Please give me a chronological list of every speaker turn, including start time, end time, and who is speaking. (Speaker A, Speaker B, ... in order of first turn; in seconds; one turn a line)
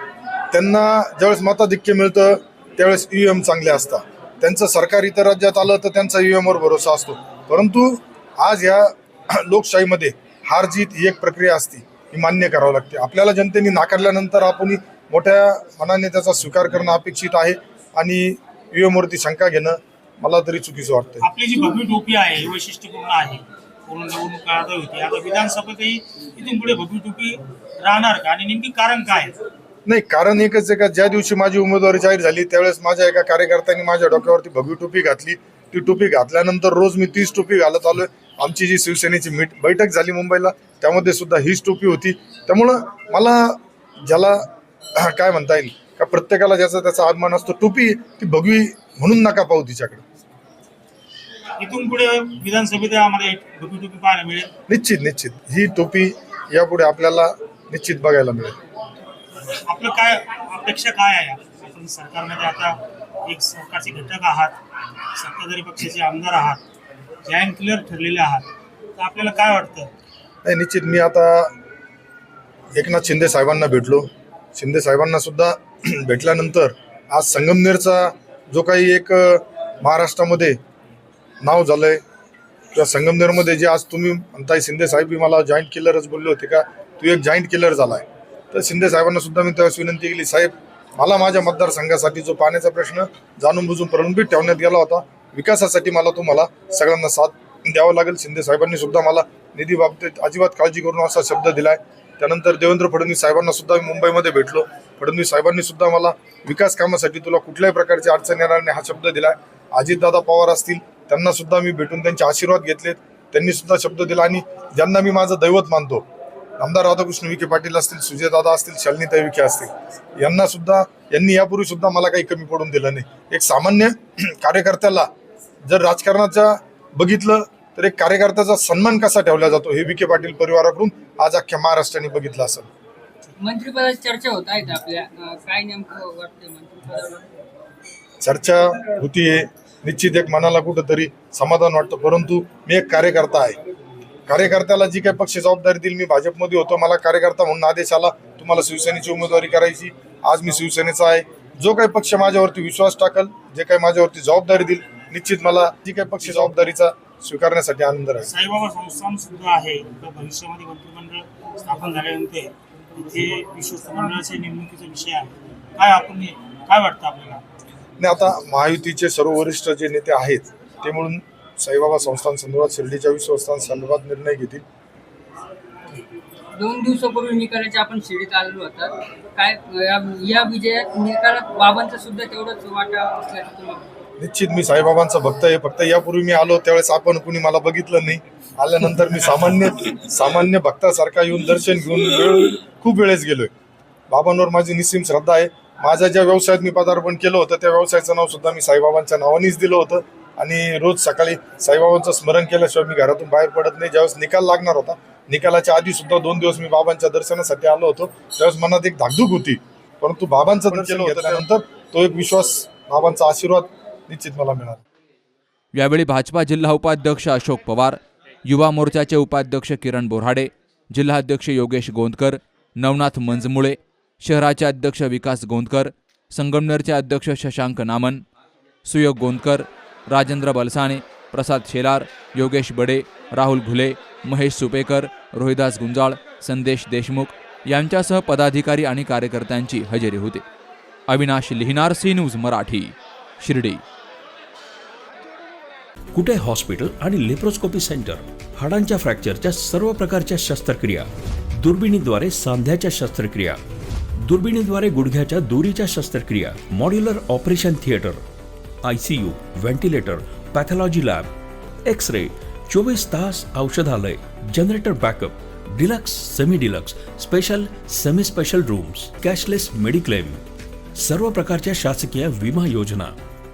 Speaker A: 0.5-21.2
Speaker B: 21.2-29.4
Speaker A: 29.9-44.5
Speaker A: 45.0-50.0
Speaker B: 51.6-54.5
Speaker A: 54.7-58.6
Speaker B: 59.6-64.6
Speaker B: 65.1-66.6
Speaker B: 67.3-69.9
Speaker A: 70.4-71.5
Speaker A: 72.8-80.6
Speaker A: 81.4-82.0
Speaker A: 82.7-116.0
Speaker A: 116.6-125.1
Speaker A: 125.7-132.7
Speaker C: 133.4-137.3
Speaker A: 138.2-143.6
Speaker A: 144.3-158.3
Speaker B: 156.3-156.6
Speaker B: 158.2-167.4
Speaker A: 168.0-174.6
Speaker C: 176.6-183.9
Speaker A: 184.2-193.5
Speaker A: 194.1-214.8
Speaker D: 210.9-211.2
Speaker D: 215.7-228.2
Speaker D: 228.8-240.4
Speaker D: 241.1-243.8
Speaker E: 246.1-251.1
Speaker E: 251.6-253.6
Speaker E: 254.2-258.2
Speaker E: 258.8-261.3
Speaker E: 261.9-270.4
Speaker E: 271.0-273.2